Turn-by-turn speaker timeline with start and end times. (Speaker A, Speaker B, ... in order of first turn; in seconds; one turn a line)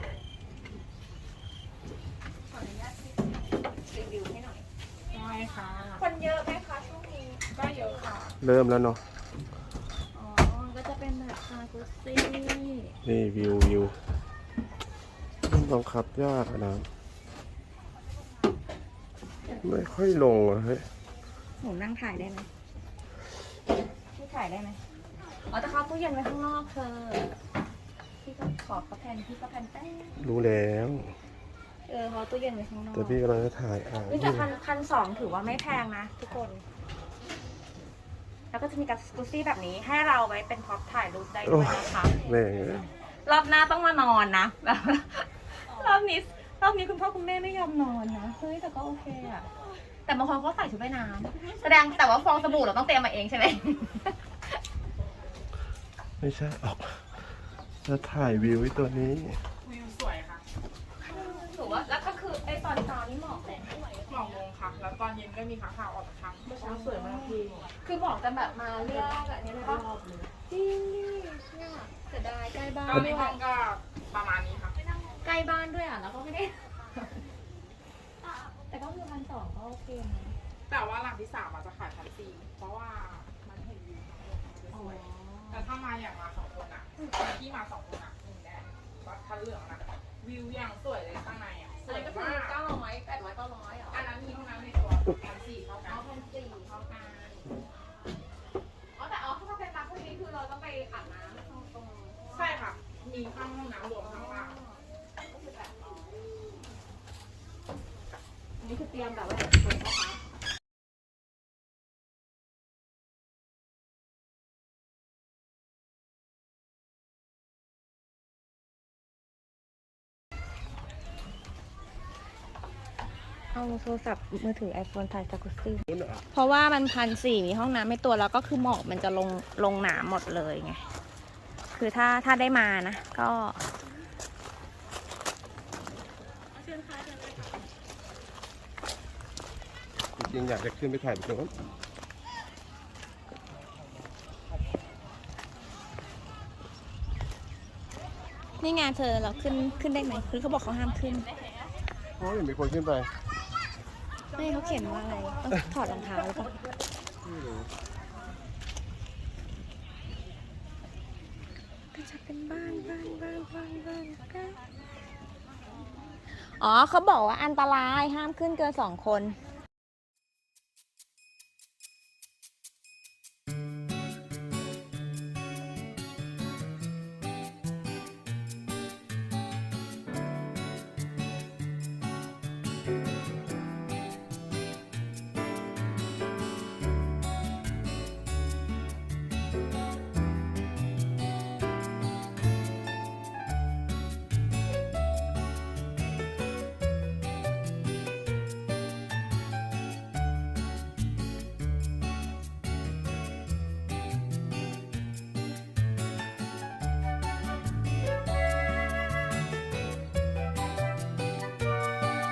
Speaker A: 2.5-4.6
Speaker B: 5.1-6.0
Speaker A: 6.0-7.4
Speaker B: 7.5-8.3
Speaker C: 8.4-9.0
Speaker A: 10.1-12.9
Speaker C: 13.0-13.9
Speaker C: 15.4-16.9
Speaker C: 19.6-20.9
Speaker A: 21.6-22.4
Speaker A: 24.1-24.8
Speaker A: 25.5-27.3
Speaker A: 28.2-30.1
Speaker C: 30.2-31.1
Speaker A: 31.9-33.2
Speaker C: 32.9-34.5
Speaker A: 34.1-36.6
Speaker A: 38.5-42.1
Speaker C: 41.4-42.9
Speaker A: 43.2-49.5
Speaker A: 50.0-54.1
Speaker C: 56.2-57.1
Speaker C: 57.8-59.4
Speaker B: 59.6-60.4
Speaker A: 61.0-64.4
Speaker B: 64.1-67.7
Speaker A: 66.5-73.4
Speaker B: 68.9-69.1
Speaker B: 72.9-74.8
Speaker A: 74.9-77.0
Speaker A: 78.4-80.3
Speaker B: 80.7-92.6
Speaker A: 84.7-85.6
Speaker A: 91.9-94.0
Speaker B: 93.9-96.0
Speaker A: 95.8-97.5
Speaker A: 98.9-102.5
Speaker B: 102.3-104.6
Speaker A: 104.0-104.8
Speaker A: 105.3-106.0
Speaker A: 108.6-110.2
Speaker A: 123.5-130.8
Speaker C: 125.9-126.2
Speaker A: 131.7-133.6
Speaker A: 136.6-137.2
Speaker C: 140.2-141.5
Speaker A: 148.6-151.3
Speaker C: 152.2-153.1
Speaker A: 154.3-156.5
Speaker C: 157.2-157.7
Speaker A: 161.9-164.6
Speaker A: 166.5-169.3